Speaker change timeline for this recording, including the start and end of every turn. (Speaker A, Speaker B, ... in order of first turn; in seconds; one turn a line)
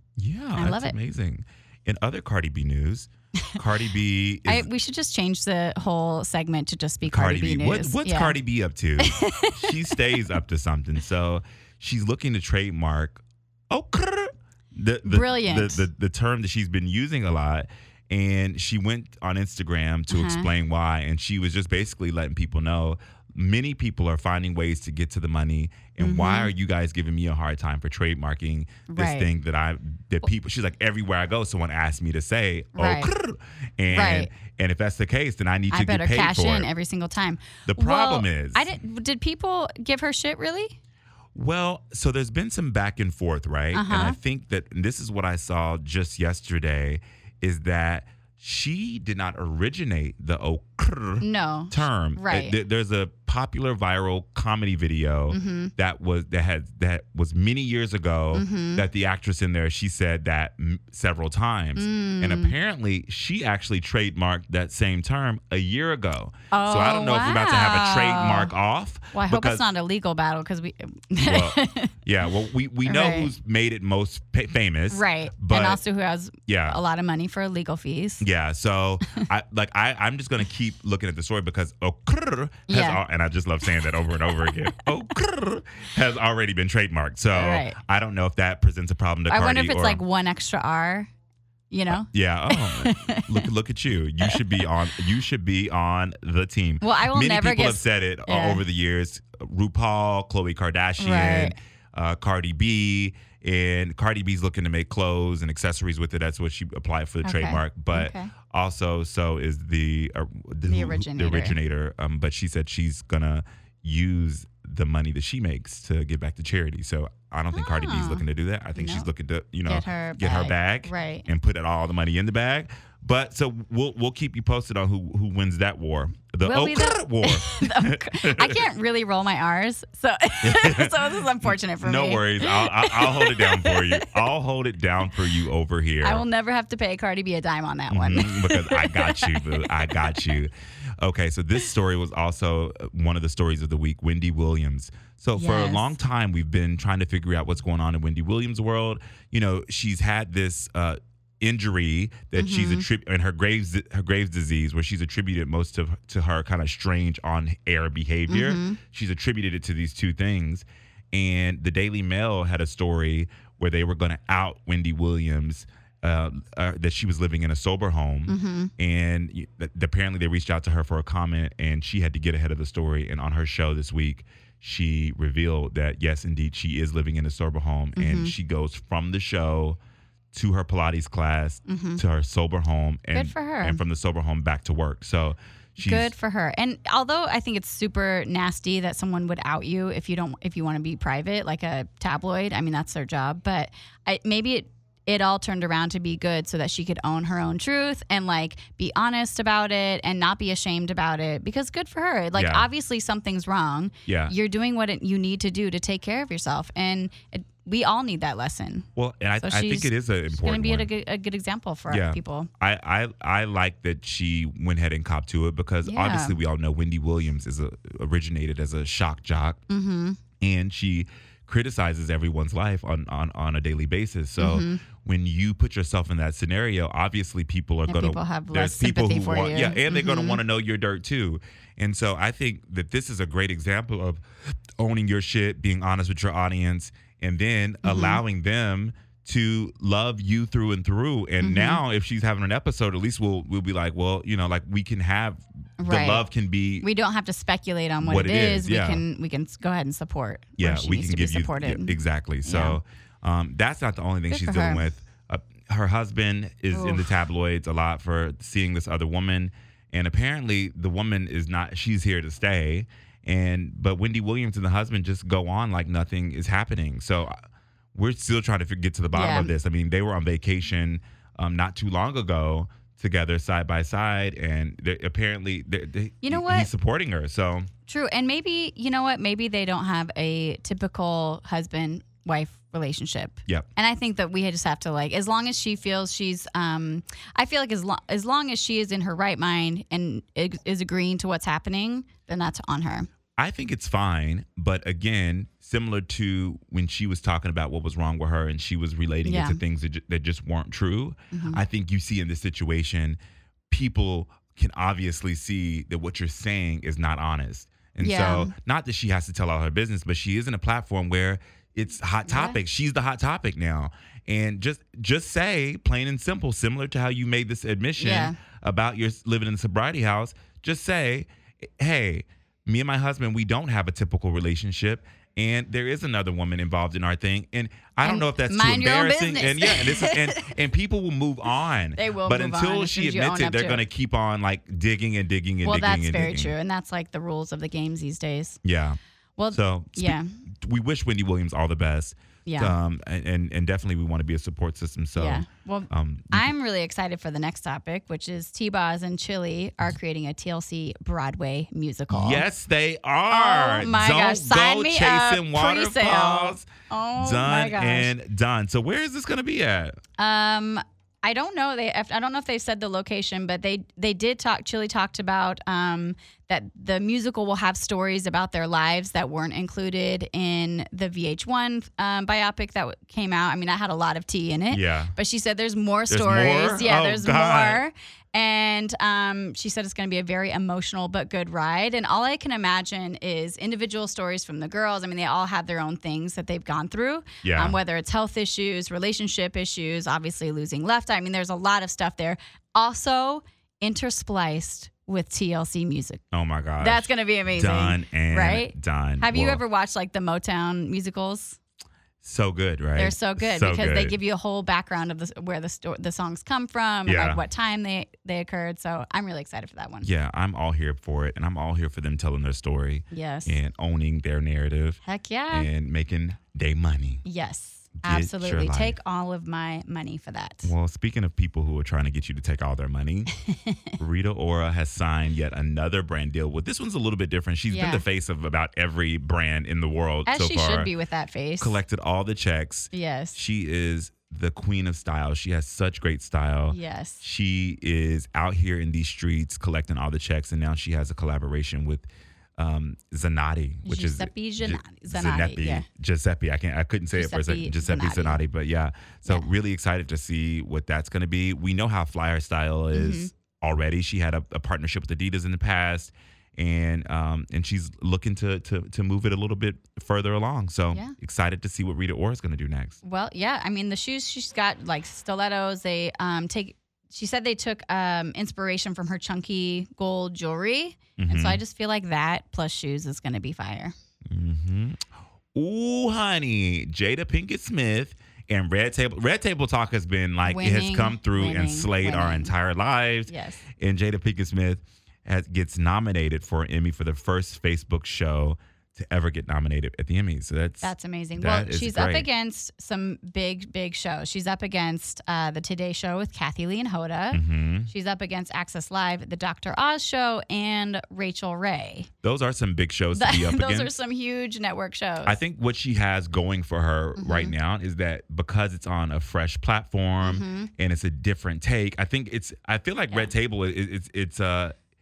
Speaker A: 0.2-4.7
Speaker B: 0.6-1.0
Speaker B: 4.5-8.4
Speaker A: 7.0-36.7
Speaker B: 9.0-9.9
Speaker B: 15.0-15.9
Speaker B: 20.1-20.5
Speaker B: 26.0-26.5
Speaker B: 28.9-29.3
Speaker B: 32.8-33.1
Speaker B: 33.9-34.3
Speaker B: 35.7-40.8
Speaker A: 37.7-38.7
Speaker A: 41.4-69.7
Speaker B: 43.7-44.2
Speaker B: 51.2-52.6
Speaker B: 55.3-55.7
Speaker B: 58.3-58.9
Speaker B: 61.8-62.5
Speaker B: 66.5-68.5
Speaker B: 69.1-71.9
Speaker A: 71.2-75.8
Speaker B: 72.8-73.3
Speaker B: 74.9-78.2
Speaker A: 76.5-76.8
Speaker A: 78.2-90.0
Speaker B: 82.7-83.0
Speaker B: 84.4-84.8
Speaker B: 87.3-87.8
Speaker B: 89.3-91.1
Speaker B: 91.7-93.5
Speaker A: 91.9-128.6
Speaker B: 96.8-98.6
Speaker B: 101.0-101.5
Speaker B: 107.2-108.3
Speaker B: 110.7-111.6
Speaker B: 117.5-119.1
Speaker B: 119.7-121.3
Speaker B: 126.4-134.1
Speaker A: 130.4-136.2
Speaker B: 136.0-140.4
Speaker A: 137.9-179.8
Speaker B: 145.4-145.9
Speaker B: 152.3-152.9
Speaker B: 158.3-158.8
Speaker B: 168.3-168.7
Speaker B: 178.0-178.3
Speaker A: 180.3-186.1
Speaker B: 181.7-182.0
Speaker B: 183.1-183.8
Speaker B: 185.8-208.9
Speaker A: 202.3-202.7
Speaker A: 204.1-204.3
Speaker A: 209.0-210.9
Speaker B: 209.4-212.5
Speaker A: 211.9-219.6
Speaker B: 215.8-216.4
Speaker B: 219.7-220.2
Speaker A: 220.4-234.2
Speaker B: 224.4-224.8
Speaker B: 227.9-230.4
Speaker A: 234.8-246.9
Speaker B: 237.8-238.2
Speaker B: 241.4-241.8
Speaker B: 245.8-246.3
Speaker B: 246.8-252.8
Speaker A: 248.0-249.0
Speaker A: 250.6-267.4
Speaker B: 254.3-254.9
Speaker B: 256.7-257.2
Speaker A: 267.9-277.7
Speaker B: 269.1-269.5
Speaker B: 276.2-276.7
Speaker B: 277.9-293.1
Speaker A: 293.4-303.2
Speaker B: 299.2-299.6
Speaker B: 301.3-301.6
Speaker A: 303.7-336.5
Speaker B: 308.0-308.5
Speaker B: 312.3-312.6
Speaker B: 318.0-318.4
Speaker B: 328.0-330.6
Speaker B: 331.9-333.9
Speaker B: 335.6-338.6
Speaker A: 338.6-339.0
Speaker B: 339.4-340.3
Speaker A: 339.5-346.5
Speaker B: 342.5-342.8
Speaker B: 345.2-352.5
Speaker A: 352.1-359.9
Speaker B: 353.3-358.1
Speaker B: 360.2-396.2
Speaker A: 374.7-375.1
Speaker A: 376.1-377.8
Speaker A: 387.4-387.8
Speaker A: 396.3-399.6
Speaker B: 396.8-401.6
Speaker A: 402.2-404.2
Speaker B: 403.0-410.1
Speaker A: 407.1-407.4
Speaker A: 410.0-415.0
Speaker B: 413.1-413.6
Speaker B: 415.0-415.7
Speaker A: 415.5-417.2
Speaker B: 417.2-420.7
Speaker A: 418.0-419.0
Speaker A: 420.6-423.3
Speaker B: 423.5-423.9
Speaker A: 424.0-430.9
Speaker B: 427.7-428.0
Speaker B: 430.3-431.8
Speaker A: 431.6-463.0
Speaker B: 432.9-433.4
Speaker B: 436.7-437.2
Speaker B: 443.9-445.9
Speaker B: 447.1-448.4
Speaker B: 452.9-453.3
Speaker B: 463.0-473.9
Speaker A: 471.2-471.6
Speaker A: 474.3-492.3
Speaker B: 480.4-482.5
Speaker B: 483.3-483.6
Speaker B: 490.8-502.1
Speaker A: 497.3-497.9
Speaker A: 502.2-503.9
Speaker B: 503.1-505.4
Speaker A: 505.2-514.8
Speaker B: 507.2-507.6
Speaker B: 510.2-510.7